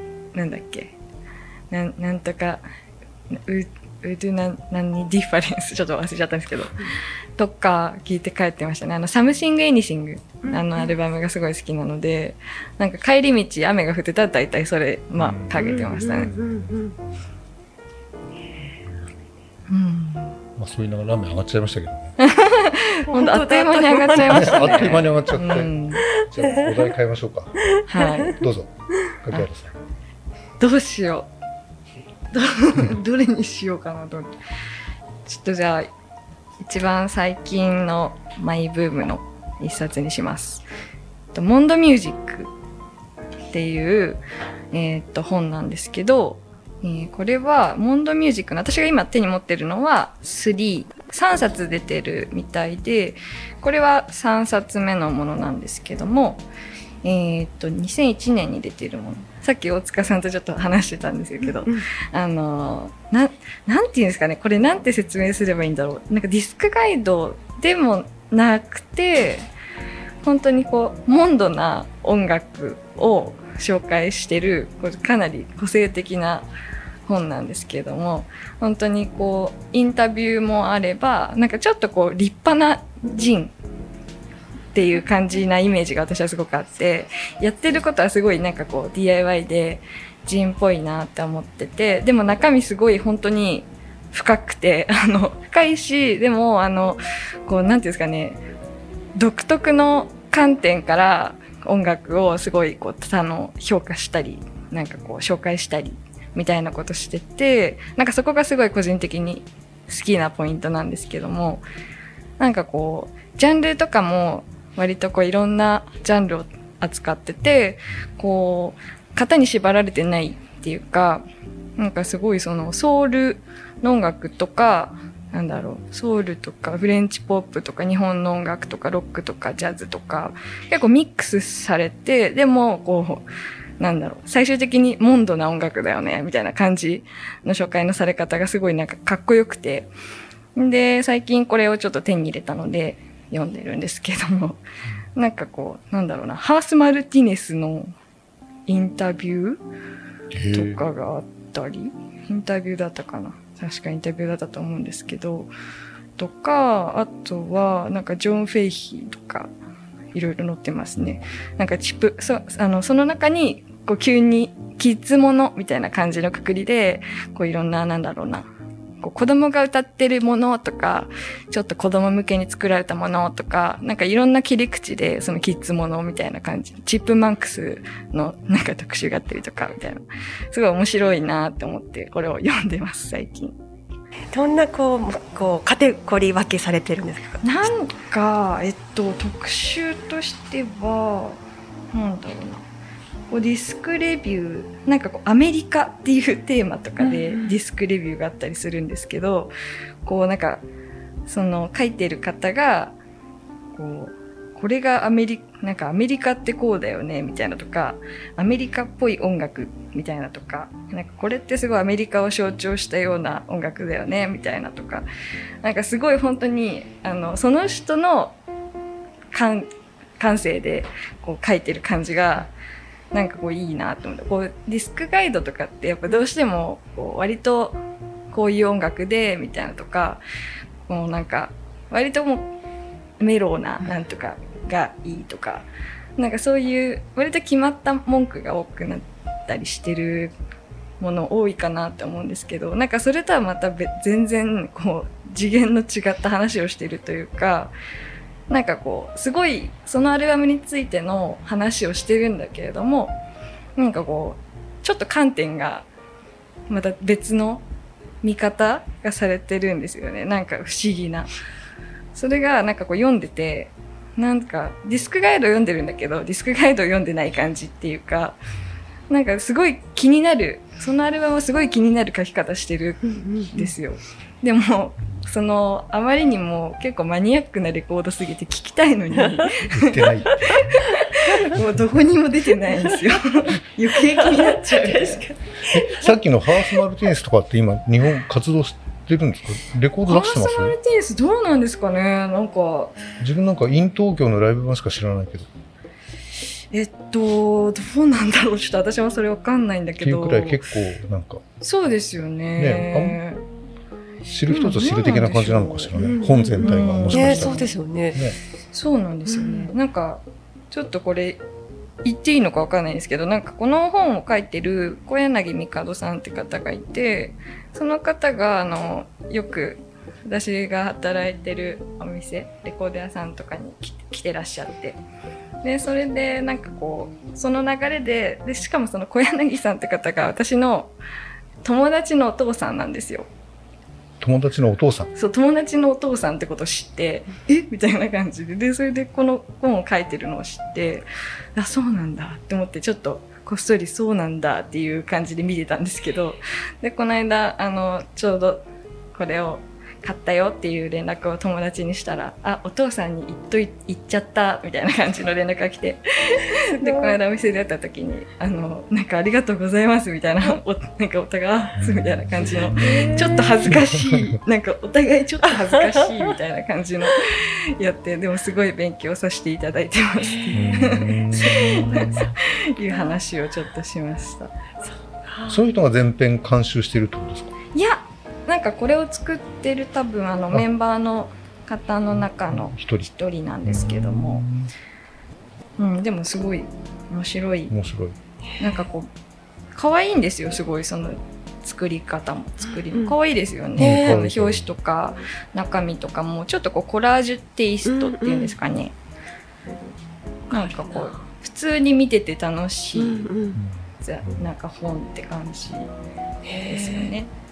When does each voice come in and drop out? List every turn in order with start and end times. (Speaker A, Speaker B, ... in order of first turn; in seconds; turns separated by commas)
Speaker A: 0.3-0.9, Speaker A: 1.7-2.6, Speaker A: 3.3-16.3, Speaker B: 10.4-10.9, Speaker C: 15.2-17.1, Speaker B: 15.5-16.9, Speaker A: 19.7-20.3, Speaker C: 20.6-22.1, Speaker A: 22.2-26.1, Speaker B: 23.1-25.0, Speaker C: 24.2-27.6, Speaker B: 26.0-26.9, Speaker B: 27.8-28.2, Speaker A: 27.9-28.4, Speaker C: 28.3-28.7, Speaker C: 29.2-29.8, Speaker A: 30.6-31.3, Speaker A: 32.3-34.4, Speaker A: 35.2-35.9, Speaker A: 36.6-40.6, Speaker A: 41.3-42.5, Speaker A: 43.5-44.2, Speaker A: 44.7-56.4, Speaker A: 57.0-69.5, Speaker B: 61.4-61.8, Speaker A: 70.2-76.5, Speaker A: 77.0-83.5, Speaker A: 84.7-98.4, Speaker A: 99.2-111.6, Speaker A: 112.4-121.2, Speaker A: 121.8-133.2, Speaker A: 133.8-139.9, Speaker A: 140.5-144.6, Speaker A: 145.1-147.9, Speaker A: 148.7-149.6, Speaker C: 150.3-150.8, Speaker A: 150.5-155.5, Speaker A: 156.2-159.5, Speaker A: 160.1-168.5, Speaker A: 169.0-183.5, Speaker B: 184.3-187.7, Speaker A: 187.4-192.6, Speaker A: 193.3-199.5, Speaker B: 197.0-197.6, Speaker A: 200.0-200.6, Speaker A: 201.3-202.9, Speaker A: 203.7-215.1, Speaker A: 215.6-218.4, Speaker A: 219.3-222.5, Speaker A: 223.1-227.8, Speaker A: 228.3-230.2, Speaker A: 230.8-232.5, Speaker A: 233.2-240.3, Speaker A: 241.0-247.7, Speaker A: 248.5-253.2, Speaker A: 253.8-255.9, Speaker A: 256.7-257.6, Speaker A: 258.2-261.3, Speaker A: 262.1-268.4, Speaker A: 269.1-285.2, Speaker C: 279.7-280.8, Speaker C: 281.5-282.0, Speaker B: 284.0-286.1, Speaker C: 285.7-290.8, Speaker A: 290.0-292.9, Speaker C: 293.2-295.5, Speaker A: 296.7-300.6, Speaker C: 300.0-301.4, Speaker A: 301.6-303.4, Speaker C: 302.6-303.2, Speaker C: 304.2-308.4, Speaker A: 304.5-306.0, Speaker B: 305.9-308.2, Speaker A: 306.6-307.7, Speaker A: 308.7-311.4, Speaker B: 309.3-309.7, Speaker A: 312.0-325.0, Speaker A: 325.6-330.9, Speaker A: 331.6-333.3, Speaker C: 334.2-335.1, Speaker A: 335.1-374.5, Speaker B: 356.8-357.2, Speaker C: 361.8-364.3, Speaker B: 362.7-363.6, Speaker B: 365.6-365.9, Speaker B: 370.2-371.0, Speaker C: 370.5-372.3, Speaker B: 371.5-372.1, Speaker B: 374.8-375.6, Speaker C: 375.5-377.5, Speaker A: 377.7-384.4, Speaker C: 382.4-383.1, Speaker C: 383.6-384.7, Speaker A: 385.8-387.7, Speaker C: 387.7-388.1, Speaker A: 388.6-389.1, Speaker A: 389.7-398.9, Speaker B: 392.9-393.1, Speaker B: 393.8-394.3, Speaker C: 393.8-394.7, Speaker B: 397.8-398.6, Speaker B: 400.5-401.2, Speaker A: 400.5-403.3, Speaker B: 402.9-403.6, Speaker C: 403.5-404.4, Speaker A: 404.0-405.9, Speaker B: 406.4-407.1, Speaker A: 406.6-407.3